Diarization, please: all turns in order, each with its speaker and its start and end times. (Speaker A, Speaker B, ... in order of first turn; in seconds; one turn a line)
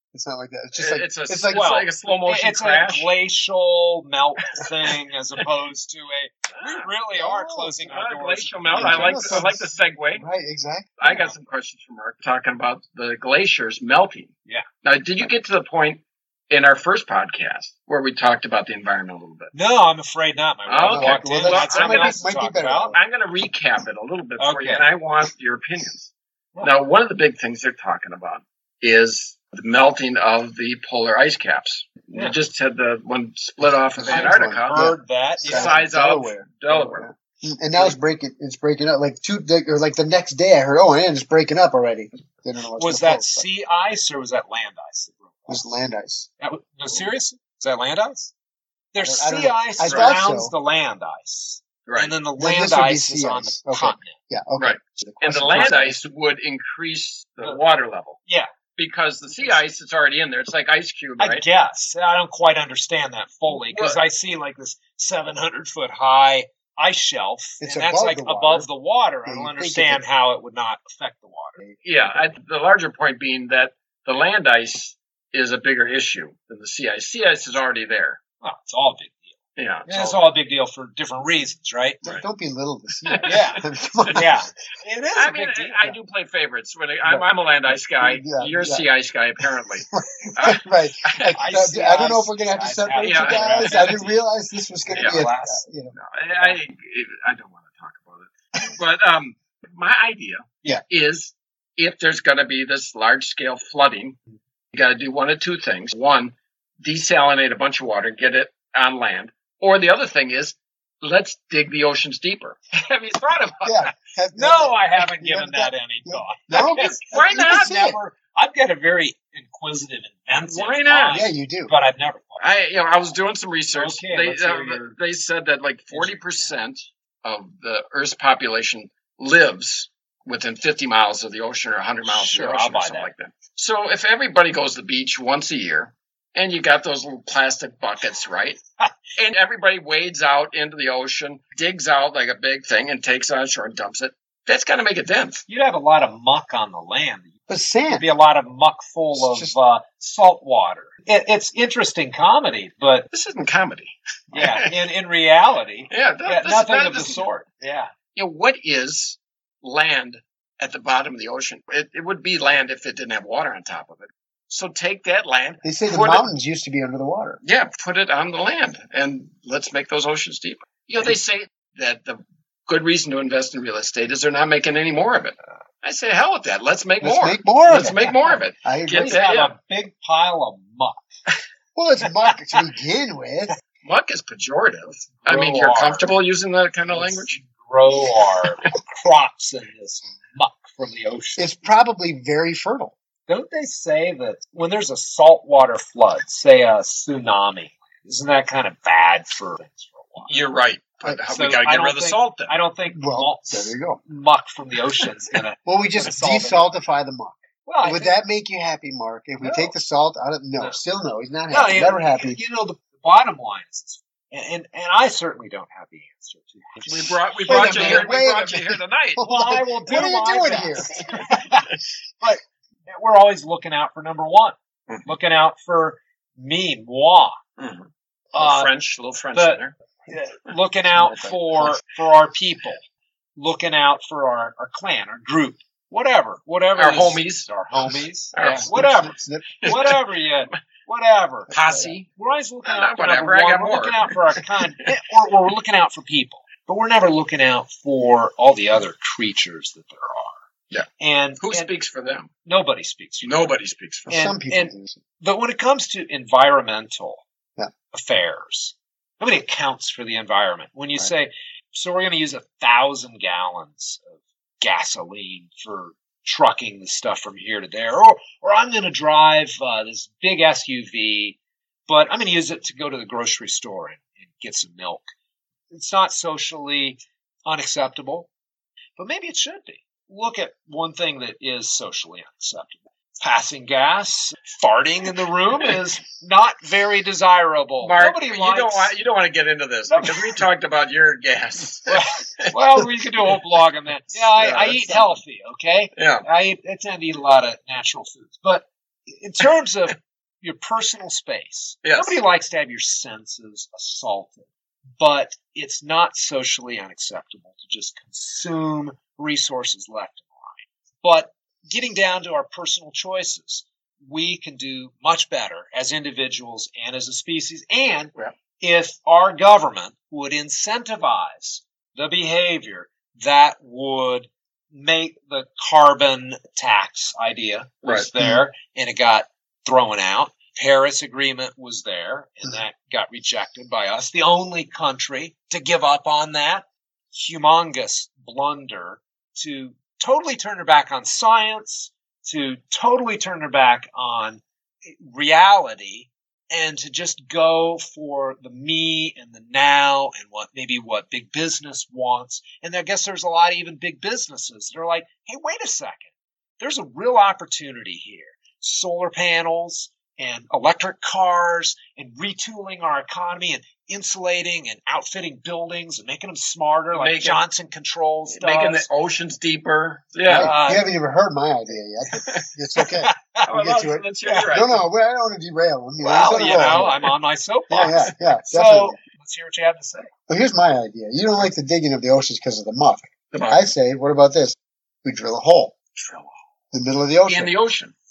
Speaker A: 0.1-1.7
Speaker B: 0.7-3.1
Speaker C: 1.5-9.5
Speaker B: 6.6-6.9
Speaker A: 7.2-7.7
Speaker B: 7.8-10.2
Speaker A: 8.7-11.3
Speaker B: 11.0-14.3
Speaker B: 14.8-19.5
Speaker C: 19.5-22.9
Speaker B: 20.7-22.2
Speaker A: 20.9-23.0
Speaker B: 22.9-34.8
Speaker C: 24.4-24.9
Speaker A: 33.9-43.4
Speaker C: 34.1-35.8
Speaker B: 35.5-37.1
Speaker C: 42.8-45.7
Speaker A: 45.5-46.3
Speaker C: 46.4-48.3
Speaker C: 48.9-54.1
Speaker A: 49.0-50.5
Speaker B: 49.8-50.1
Speaker B: 51.9-52.1
Speaker A: 52.4-56.0
Speaker B: 54.6-58.2
Speaker B: 58.8-61.4
Speaker C: 61.2-71.6
Speaker B: 63.5-64.0
Speaker A: 67.6-68.7
Speaker A: 69.2-70.0
Speaker A: 71.6-72.2
Speaker B: 71.8-78.2
Speaker C: 78.4-79.3
Speaker B: 79.5-80.2
Speaker C: 79.9-82.0
Speaker A: 82.0-84.4
Speaker B: 83.0-84.2
Speaker C: 83.2-85.9
Speaker B: 85.1-91.3
Speaker A: 88.0-88.8
Speaker A: 89.9-95.9
Speaker C: 91.3-94.2
Speaker B: 93.0-93.9
Speaker C: 94.9-95.6
Speaker B: 94.9-95.2
Speaker B: 95.9-104.2
Speaker B: 104.7-113.9
Speaker A: 113.6-118.0
Speaker C: 114.3-122.4
Speaker B: 116.8-117.8
Speaker B: 120.4-121.2
Speaker A: 121.1-121.7
Speaker B: 122.4-138.6
Speaker C: 123.7-124.9
Speaker C: 125.9-126.6
Speaker C: 132.1-133.1
Speaker B: 139.2-145.4
Speaker C: 145.5-147.3
Speaker A: 147.5-148.1
Speaker C: 147.9-153.1
Speaker A: 149.1-149.5
Speaker B: 153.1-154.7
Speaker C: 154.3-157.9
Speaker B: 155.9-157.2
Speaker B: 158.1-166.3
Speaker A: 165.6-167.4
Speaker B: 167.4-179.5
Speaker A: 177.0-178.0
Speaker A: 178.6-179.2
Speaker C: 178.9-181.1
Speaker A: 181.7-183.5
Speaker B: 183.8-187.4
Speaker C: 185.2-186.1
Speaker C: 186.9-191.6
Speaker A: 191.4-192.9
Speaker C: 193.3-200.4
Speaker B: 200.3-202.5
Speaker C: 201.3-206.7
Speaker A: 202.9-204.0
Speaker A: 205.7-212.4
Speaker C: 207.7-208.2
Speaker C: 209.4-209.7
Speaker C: 211.5-218.2
Speaker B: 216.9-219.2
Speaker A: 217.4-220.9
Speaker C: 219.2-227.4
Speaker B: 227.6-229.7
Speaker C: 228.3-228.7
Speaker C: 229.3-232.8
Speaker C: 233.3-241.5
Speaker B: 236.8-237.5
Speaker B: 238.3-238.7
Speaker A: 238.4-239.8
Speaker B: 239.6-240.0
Speaker A: 241.5-241.9
Speaker B: 241.5-242.1
Speaker C: 242.1-250.4
Speaker B: 242.6-244.4
Speaker C: 251.0-251.7
Speaker B: 251.4-252.3
Speaker C: 252.4-253.5
Speaker B: 253.2-254.3
Speaker A: 254.1-255.0
Speaker C: 254.1-257.2
Speaker C: 257.9-271.4
Speaker C: 271.9-275.1
Speaker C: 275.7-278.3
Speaker C: 279.0-288.9
Speaker B: 287.8-292.5
Speaker C: 289.9-290.4
Speaker C: 291.9-356.1
Speaker B: 294.1-295.1
Speaker B: 295.9-296.2
Speaker B: 301.8-302.2
Speaker C: 356.6-368.9
Speaker B: 366.9-367.4
Speaker B: 368.3-370.6
Speaker A: 370.3-377.0
Speaker C: 370.3-370.9
Speaker B: 372.2-372.5
Speaker C: 372.8-373.5
Speaker B: 373.4-374.8
Speaker C: 374.2-374.5
Speaker C: 376.0-380.1
Speaker B: 376.3-377.1
Speaker A: 377.7-379.0
Speaker A: 380.3-385.7
Speaker B: 383.3-383.7
Speaker B: 385.9-386.3
Speaker A: 386.7-387.5
Speaker B: 387.3-387.9